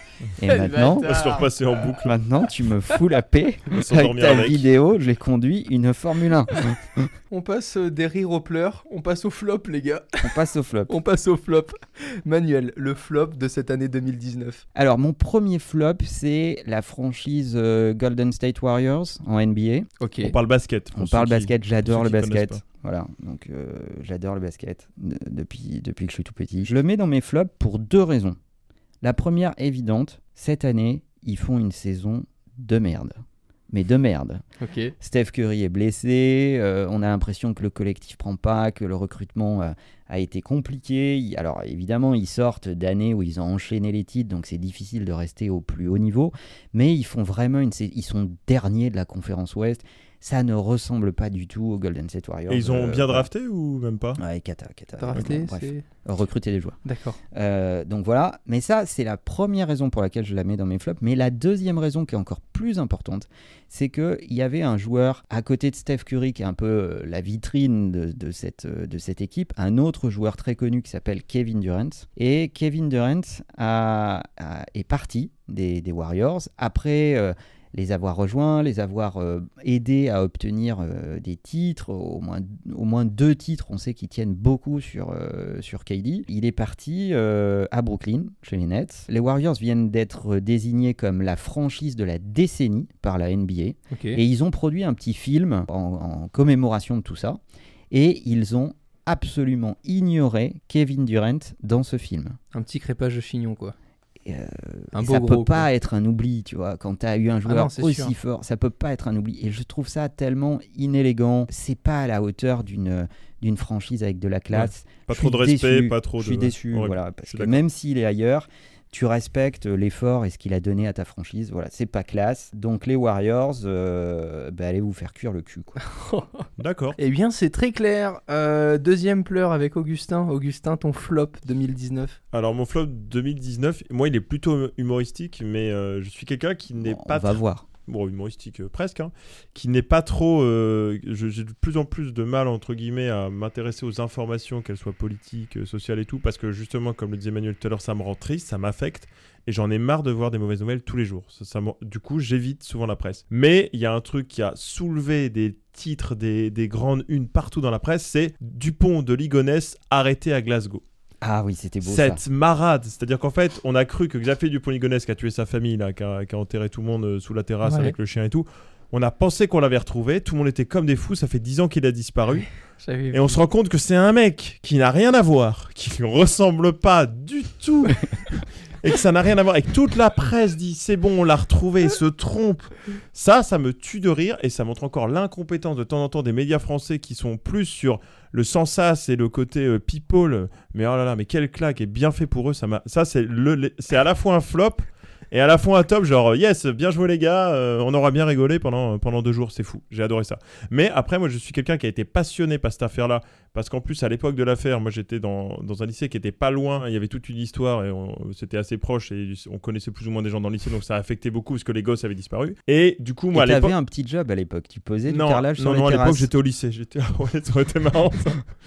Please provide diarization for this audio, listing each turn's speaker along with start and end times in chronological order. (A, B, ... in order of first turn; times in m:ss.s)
0:00.4-0:01.2 A
0:00.4-0:01.5 B
0:01.0-0:02.1 C
0:02.0-0:07.1 A
0:03.7-0:04.7 C
0:07.3-0:10.3 B
0:10.2-0:10.9 A
0:10.9-0:14.6 B
0:14.7-0:19.9 A
0:20.0-0:20.3 B
0:20.2-0:22.6 C
0:20.9-0:28.4 A
0:29.0-0:34.4 A
0:34.6-0:34.9 B
0:35.0-0:53.3 A
0:52.5-0:54.2 C
0:54.2-0:56.8 A
0:55.0-0:55.8 B
0:56.8-0:57.2 B
0:57.3-1:37.4 A
1:33.9-1:34.2 B
1:37.9-1:42.4 A
1:42.5-1:43.7 B
1:44.2-2:05.8 A
1:44.9-1:45.7 B
1:47.4-1:48.1 B
1:54.5-1:57.6 C
2:05.8-2:06.5 B
2:06.6-2:07.0 C
2:07.0-2:12.2 B
2:12.3-2:40.8 C
2:16.8-2:17.6 A
2:41.2-2:42.2 A
2:41.8-2:52.5 C
2:47.6-2:47.9 B
2:52.8-2:53.4 B
2:53.1-3:33.7 C
3:33.3-3:36.3 A
3:35.1-3:38.4 C